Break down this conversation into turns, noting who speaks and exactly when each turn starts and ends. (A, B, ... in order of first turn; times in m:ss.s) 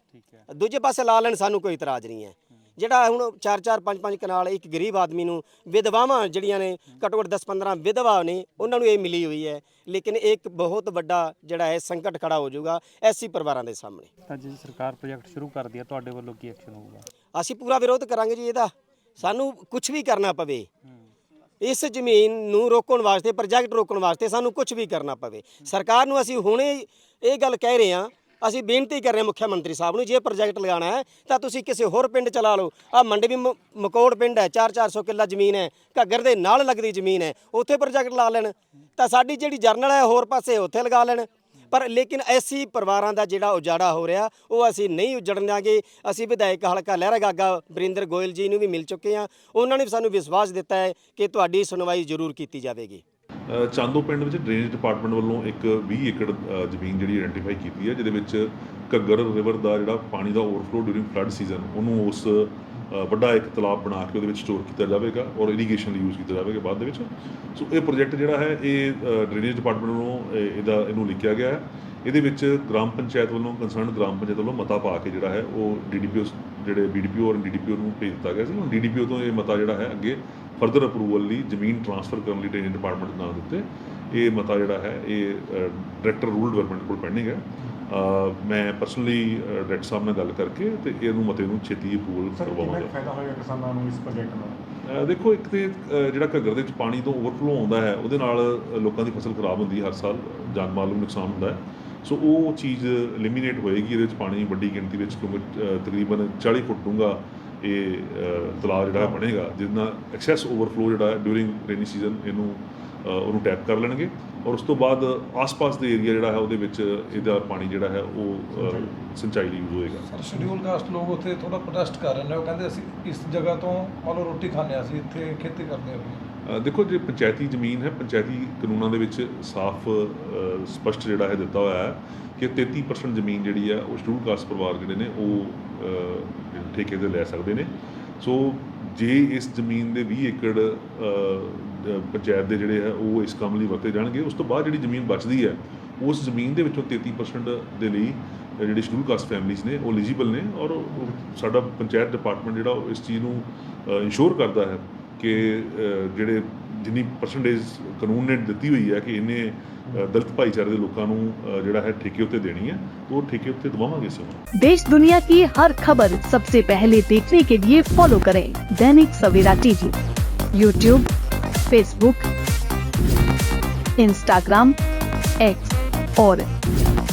0:00.1-0:00.4 A
0:00.5-0:14.1 B
0:14.3-0:17.0 A
0:17.3-0:20.7 B
0:21.6-0:53.0 B
0:53.5-1:33.0 C
1:32.3-1:34.6 D
1:34.8-2:00.1 C
1:57.2-1:57.4 E
1:58.5-1:58.9 E
2:00.1-2:06.2 E
2:06.4-2:44.4 C
2:44.5-2:49.9 F
2:50.5-2:51.1 F
2:51.7-2:52.3 F
2:54.0-2:54.8 F
2:55.4-2:56.5 F